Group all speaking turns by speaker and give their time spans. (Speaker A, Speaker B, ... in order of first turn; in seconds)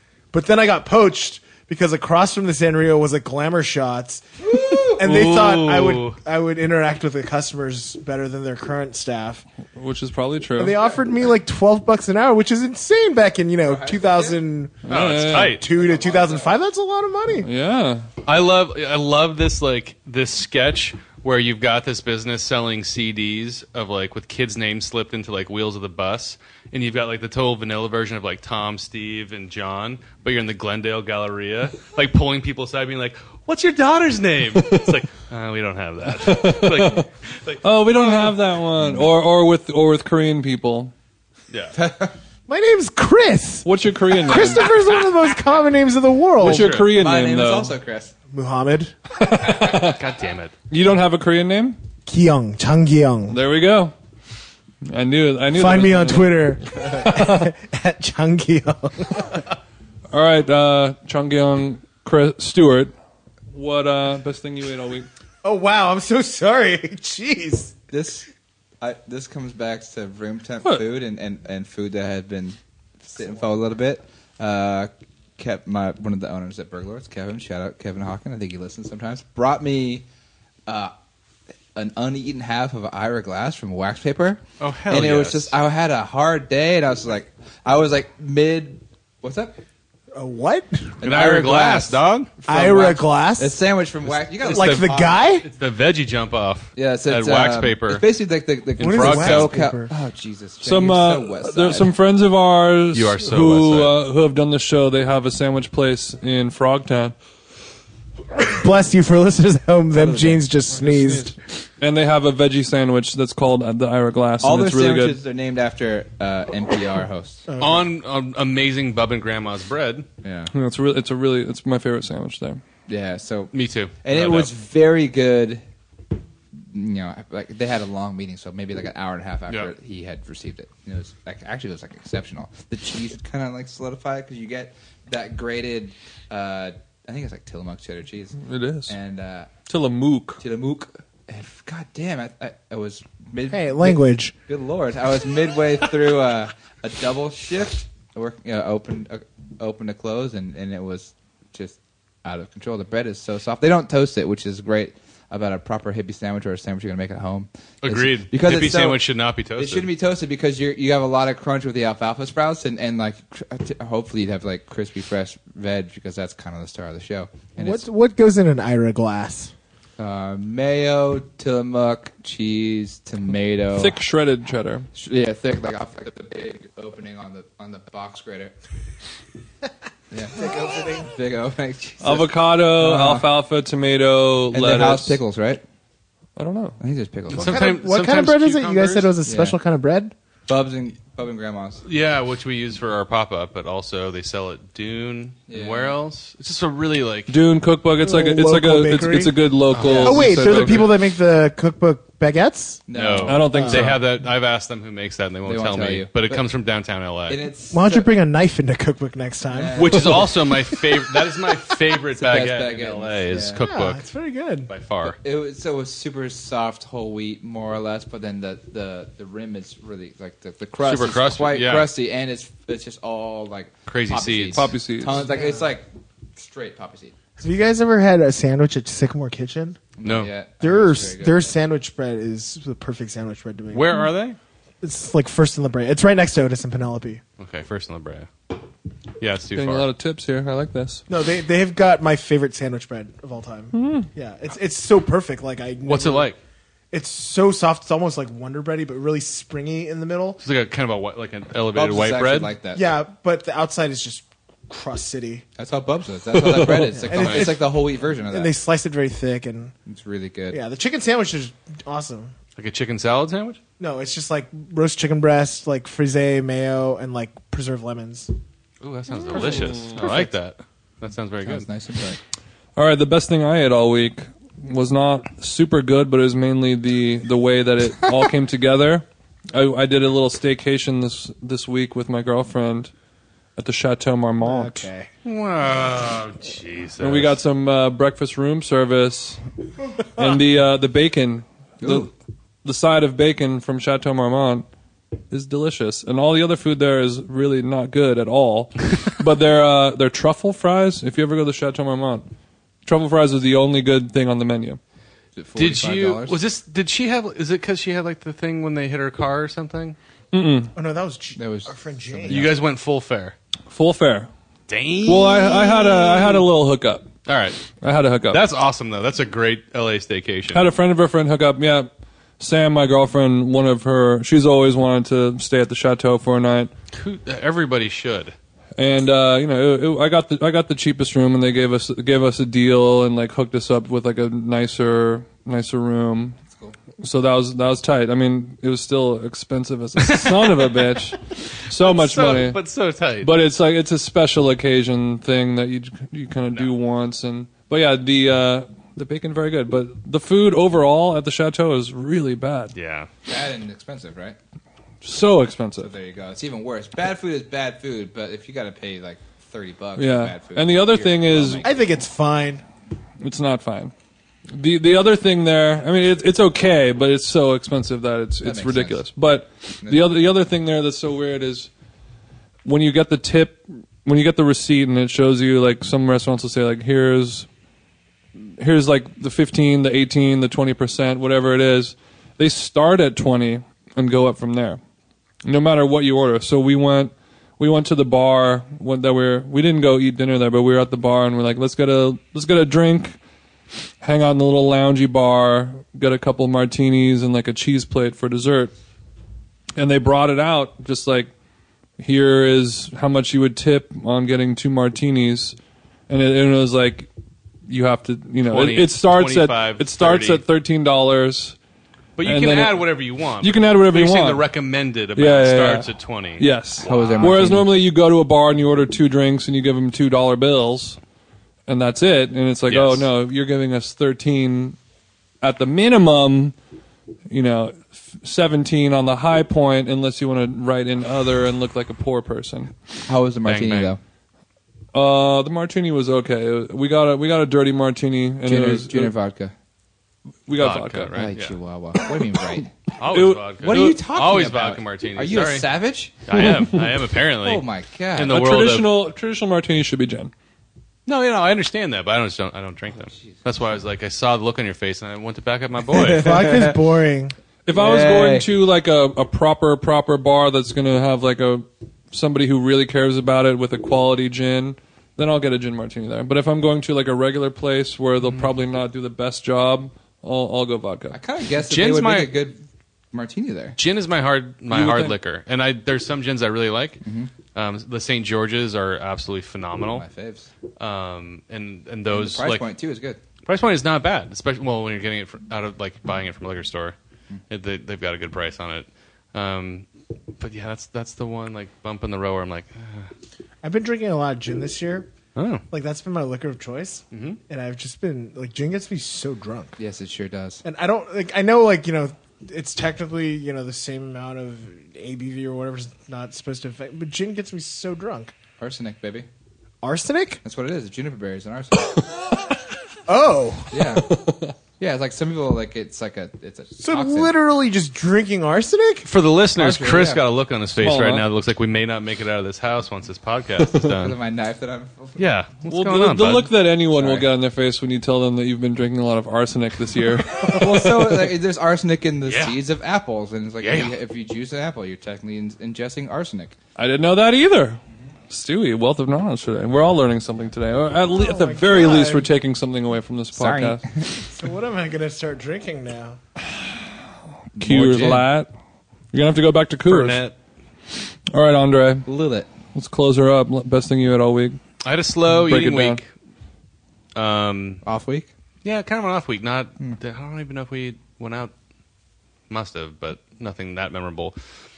Speaker A: 0.3-4.3, 4.9-9.4, 10.6-17.5, 42.5-46.8, 48.3-49.0, 52.1-53.4, 55.5-59.4, 65.4-67.8, 90.1-91.0, 92.5-93.6, 94.4-95.4, 98.8-99.9, 108.4-111.4, 117.5-117.9, 143.5-144.3, 167.6-169.5, 180.4-181.1, 187.3-190.1, 198.0-202.8, 203.5-204.0, 207.7-209.9, 213.6-214.7, 225.3-225.7, 227.4-229.8, 230.6-234.1, 234.8-237.2, 241.1-246.3, 246.9-250.4, 252.7-255.4, 256.7-259.7, 260.5-262.3, 263.8-268.3, 270.0-270.3, 284.4-285.1, 310.7-312.6, 361.6-362.6, 456.1-457.4, 493.6-495.1, 495.7-499.7, 500.6-508.3, 509.8-510.4, 513.1-513.9, 516.8-519.1, 541.1-542.3, 544.2-546.2
Speaker B: 4.5-6.2, 14.9-15.6, 18.2-37.6, 41.5-41.8, 46.4-46.9, 49.6-50.5, 84.6-85.5, 91.0-92.9, 94.1-98.0, 98.8-99.5, 102.9-104.0, 117.6-120.0, 123.5-124.5, 157.8-159.9, 187.3-189.1, 191.8-197.3, 199.7-200.7, 202.9-207.4, 209.7-214.0, 214.7-215.2, 220.8-221.9, 223.9-224.7, 230.0-230.3, 233.7-234.4, 237.4-238.3, 239.2-239.9, 245.8-246.4, 250.4-252.5, 257.1-257.5, 262.6-263.6, 268.8-271.7, 285.2-287.3, 305.6-310.0, 312.3-313.3, 314.7-315.6, 317.2-317.6, 318.3-320.6, 326.9-328.3, 340.0-340.8, 341.7-343.3, 352.7-353.1, 408.5-410.4, 412.2-417.5, 422.7-423.1, 433.4-433.9, 440.6-441.5, 443.0-445.7, 446.2-449.0, 451.1-456.4, 468.2-468.5, 471.6-472.3, 473.8-477.0, 477.5-480.0, 480.8-482.6, 483.4-486.9, 487.5-489.9, 490.4-493.1, 495.4-495.6, 497.1-497.4, 519.0-524.1, 525.2-526.5, 532.2-532.6, 533.6-533.9, 549.9-550.4, 554.8-556.0, 557.1-557.8, 558.6-561.5, 562.5-564.3
Speaker C: 9.7-10.8, 14.8-15.6, 17.4-18.1, 34.6-34.9, 36.0-37.0, 37.6-40.9, 43.6-44.7, 46.4-47.8, 49.3-50.0, 50.7-51.8, 53.3-53.9, 54.9-57.5, 60.1-62.9, 63.5-65.1, 100.6-107.1, 110.1-115.2, 120.5-122.6, 138.4-138.9, 139.7-140.4, 173.7-174.9, 182.0-185.2, 186.3-186.8, 197.3-200.9, 203.2-204.0, 224.5-225.2, 239.5-241.0, 243.7-244.1, 256.4-256.9, 269.3-270.0, 272.8-282.9, 283.6-284.8, 287.0-289.4, 290.1-292.1, 292.6-294.6, 295.3-302.2, 302.9-304.8, 310.3-310.7, 313.7-314.3, 315.1-317.1, 317.8-318.4, 320.5-326.7, 328.8-336.4, 337.0-342.6, 343.2-352.7, 355.0-355.9, 360.0-361.6, 363.2-363.9, 364.5-371.7, 372.6-377.5, 378.4-384.8, 385.4-393.2, 394.0-398.7, 399.8-401.3, 402.0-405.6, 406.1-407.1, 407.7-411.6, 412.2-412.8, 413.4-414.4, 415.1-415.9, 416.4-421.0, 421.7-424.8, 425.4-426.5, 427.3-432.7, 434.9-439.1, 440.5-441.1, 443.1-444.0, 446.3-446.9, 448.2-450.3, 457.6-471.2, 474.7-475.1, 514.1-514.5, 520.8-521.2, 525.6-531.3, 536.8-543.8, 547.5-548.5, 549.1-550.2, 551.3-552.1, 552.7-554.6, 555.3-556.0
Speaker D: 13.6-14.4, 15.7-16.6, 38.8-39.1, 41.7-42.1, 46.7-48.1, 67.9-68.3, 68.8-80.0, 80.7-80.9, 81.7-89.5, 91.0-92.0, 92.5-95.3, 96.8-101.9, 114.4-117.5, 120.2-120.5, 122.9-125.6, 126.6-139.5, 140.4-159.0, 159.6-167.8, 170.0-174.0, 174.9-178.5, 180.1-183.3, 184.5-185.6, 186.8-187.7, 189.2-189.6, 190.5-191.8, 195.5-195.9, 199.8-200.8, 202.9-203.5, 205.4-206.4, 207.3-208.1, 209.5-210.4, 212.1-213.6, 215.0-227.1, 229.9-231.4, 251.7-252.9, 255.6-258.5, 259.9-260.6, 271.4-272.2, 291.8-292.1, 305.3-306.4, 311.4-312.5, 336.5-336.8, 353.3-354.4, 355.8-361.7, 368.4-369.1, 369.8-370.1, 416.8-417.7, 433.1-434.0, 438.4-439.5, 441.1-442.8, 443.6-446.2, 447.4-448.4, 455.9-456.8, 457.7-458.5, 471.1-472.6, 473.1-473.8, 477.0-477.3, 479.9-480.5, 482.1-483.2, 499.8-500.6, 508.6-509.3, 510.4-512.0, 513.7-514.1, 514.8-517.3, 519.5-520.2, 523.7-525.2, 526.9-527.3, 530.4-536.5, 543.3-544.1, 547.5-548.3, 552.0-552.5, 557.8-558.3